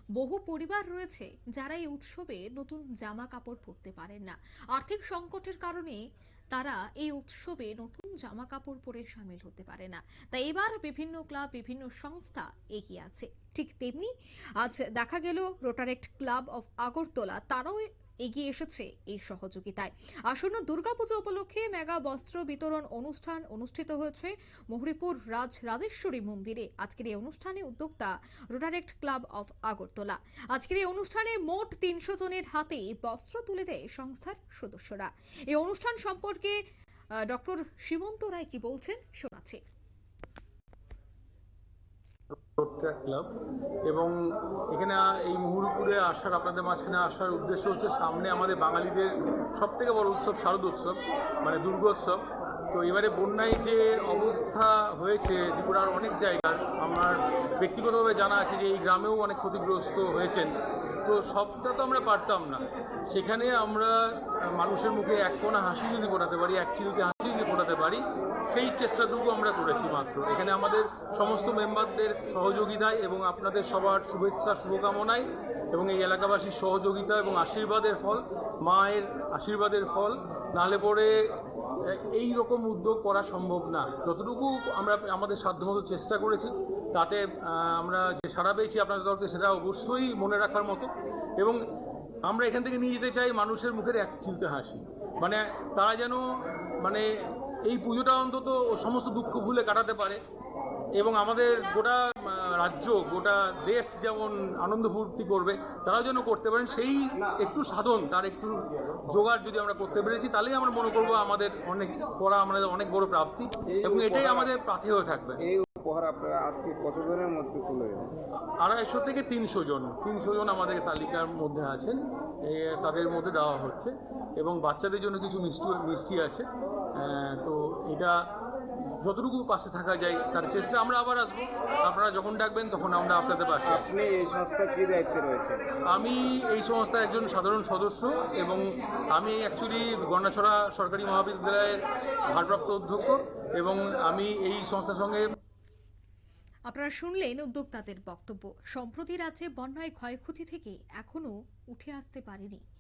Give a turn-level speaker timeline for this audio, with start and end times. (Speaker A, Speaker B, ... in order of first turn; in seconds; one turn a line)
Speaker A: 0.1-6.0
Speaker A: 6.5-36.6
Speaker A: 37.3-39.6
Speaker B: 42.6-43.3
Speaker B: 43.9-44.2
Speaker B: 44.7-81.1
Speaker B: 81.8-91.6
Speaker B: 92.2-96.2
Speaker B: 96.8-97.1
Speaker B: 97.6-100.2
Speaker B: 101.0-115.4
Speaker C: 113.7-114.5
Speaker C: 115.5-118.1
Speaker B: 118.6-128.2
Speaker B: 129.0-133.9
Speaker C: 133.7-135.6
Speaker B: 135.9-145.2
Speaker A: 146.7-152.6